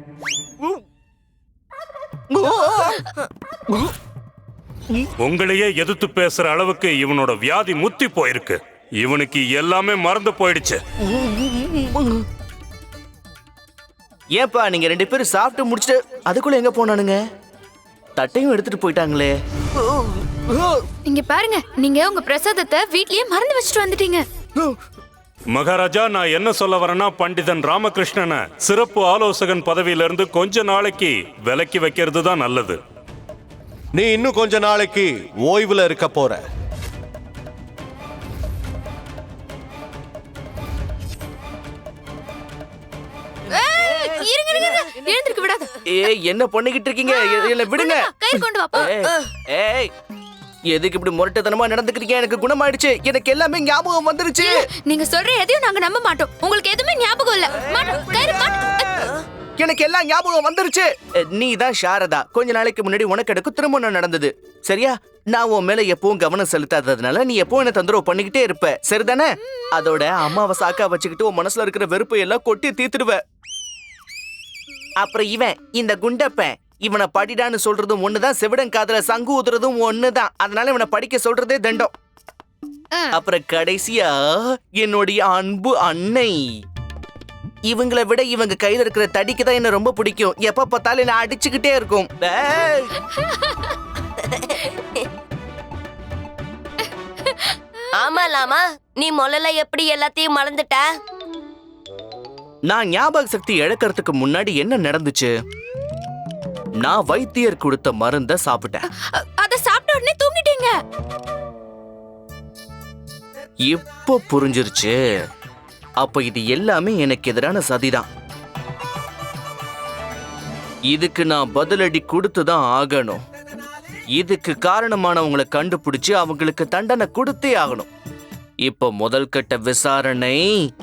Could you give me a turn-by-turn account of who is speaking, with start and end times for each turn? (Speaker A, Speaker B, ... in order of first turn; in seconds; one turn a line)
Speaker A: 2.3-3.2
Speaker B: 5.2-10.8
Speaker A: 11.0-12.2
Speaker A: 14.3-17.2
Speaker A: 18.1-20.8
Speaker C: 21.1-24.2
Speaker B: 25.5-32.8
Speaker D: 34.0-36.4
Speaker C: 43.5-45.7
Speaker A: 43.8-44.8
Speaker A: 45.9-49.9
Speaker C: 47.0-48.9
Speaker A: 50.7-54.5
Speaker C: 54.4-59.0
Speaker A: 59.6-73.2
Speaker A: 75.0-81.9
Speaker A: 83.1-86.4
Speaker A: 87.7-92.9
Speaker E: 97.9-100.8
Speaker A: 102.7-105.3
Speaker A: 106.8-108.8
Speaker C: 109.2-110.7
Speaker A: 113.6-115.0
Speaker A: 116.0-118.1
Speaker A: 120.9-123.2
Speaker A: 124.1-127.9
Speaker A: 128.6-130.4